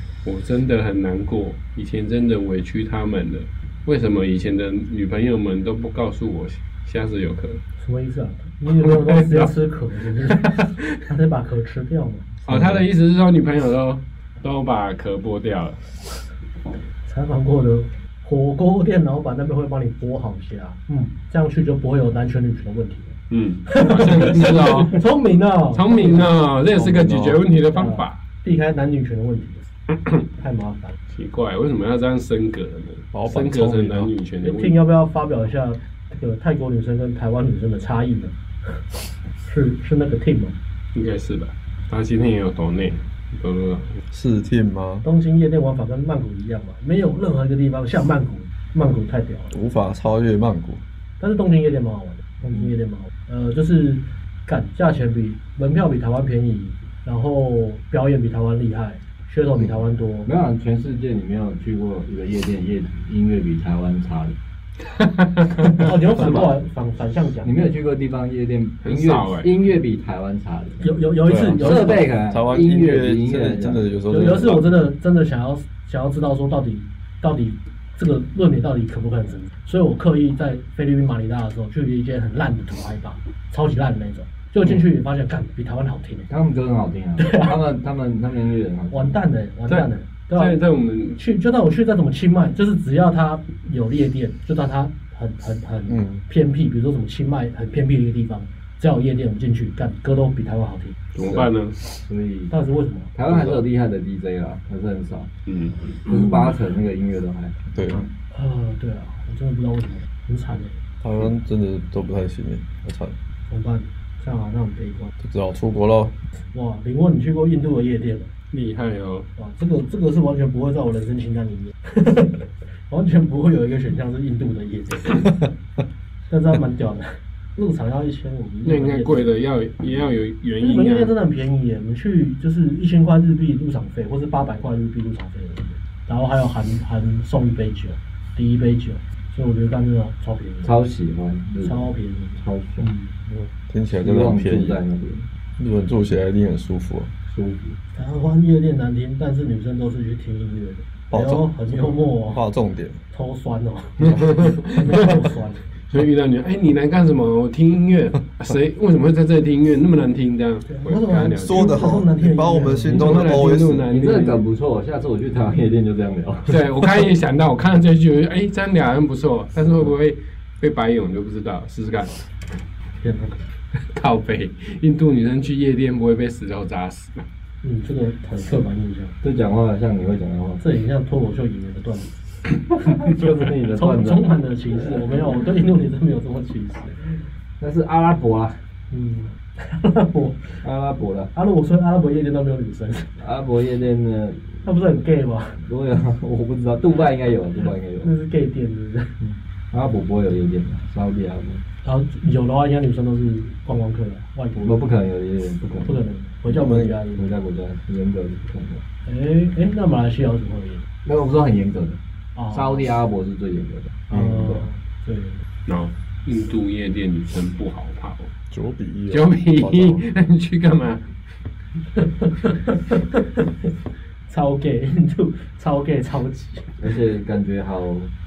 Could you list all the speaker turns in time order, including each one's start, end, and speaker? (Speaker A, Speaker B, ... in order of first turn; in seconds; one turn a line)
Speaker A: 0.2-7.6
Speaker B: 7.8-12.3
Speaker A: 8.8-9.5
Speaker A: 10.3-10.8
Speaker C: 12.4-12.8
Speaker A: 12.5-15.8
Speaker B: 17.1-23.1
Speaker A: 23.3-25.0
Speaker B: 23.7-26.3
Speaker A: 25.7-28.2
Speaker C: 26.7-27.5
Speaker B: 27.7-29.6
Speaker B: 30.4-30.9
Speaker A: 31.1-34.8
Speaker C: 33.1-34.1
Speaker B: 34.4-38.8
Speaker B: 39.4-40.5
Speaker A: 40.9-44.0
Speaker C: 44.1-45.0
Speaker B: 45.0-49.5
Speaker C: 49.5-50.8
Speaker B: 51.2-60.3
Speaker D: 60.2-64.4
Speaker A: 64.9-65.6
Speaker D: 65.6-66.5
Speaker B: 65.6-67.6
Speaker D: 67.4-73.9
Speaker A: 68.8-69.5
Speaker B: 70.8-72.0
Speaker C: 71.2-74.8
Speaker B: 74.1-86.3
Speaker D: 86.3-89.2
Speaker B: 87.2-87.5
Speaker B: 88.9-90.6
Speaker A: 89.7-91.2
Speaker B: 91.2-101.0
Speaker C: 95.9-96.2
Speaker A: 101.1-101.8
Speaker D: 102.0-102.5
Speaker B: 102.5-103.1
Speaker D: 103.1-105.3
Speaker C: 103.3-103.6
Speaker A: 105.5-105.9
Speaker D: 106.0-107.5
Speaker C: 107.7-108.1
Speaker B: 108.3-110.7
Speaker C: 111.0-113.1
Speaker B: 113.5-115.1
Speaker C: 115.2-116.1
Speaker B: 116.5-118.3
Speaker A: 118.5-119.3
Speaker B: 119.4-125.3
Speaker B: 126.3-129.3
Speaker A: 128.6-131.1
Speaker B: 130.6-140.8
Speaker D: 140.6-142.9
Speaker B: 141.6-143.2
Speaker C: 143.3-144.8
Speaker D: 143.9-145.3
Speaker C: 145.6-147.1
Speaker D: 147.3-147.8
Speaker B: 147.9-152.4
Speaker C: 151.1-153.0
Speaker B: 153.1-155.6
Speaker A: 154.0-155.2
Speaker C: 154.1-154.4
Speaker A: 155.9-161.7
Speaker B: 160.7-163.3
Speaker C: 161.4-163.9
Speaker A: 162.9-164.4
Speaker D: 163.3-166.6
Speaker A: 166.5-172.2
Speaker B: 173.0-173.4
Speaker A: 173.9-177.2
Speaker B: 177.6-179.2
Speaker D: 179.2-180.6
Speaker B: 180.6-182.1
Speaker D: 183.0-184.3
Speaker B: 183.7-187.1
Speaker D: 187.6-188.6
Speaker B: 188.9-190.6
Speaker D: 190.6-191.3
Speaker B: 191.3-193.2
Speaker D: 193.2-194.6
Speaker B: 194.6-195.6
Speaker D: 195.6-198.1
Speaker B: 198.0-199.1
Speaker D: 199.2-201.6
Speaker B: 201.8-204.8
Speaker D: 204.6-206.0
Speaker B: 205.8-207.3
Speaker C: 206.5-206.9
Speaker D: 207.1-208.8
Speaker B: 209.1-210.8
Speaker D: 211.0-212.0
Speaker B: 212.3-212.9
Speaker D: 212.5-214.7
Speaker B: 214.1-215.4
Speaker A: 215.7-218.3
Speaker C: 218.5-220.0
Speaker A: 219.1-221.0
Speaker B: 222.0-223.5
Speaker B: 224.3-226.7
Speaker D: 226.8-228.1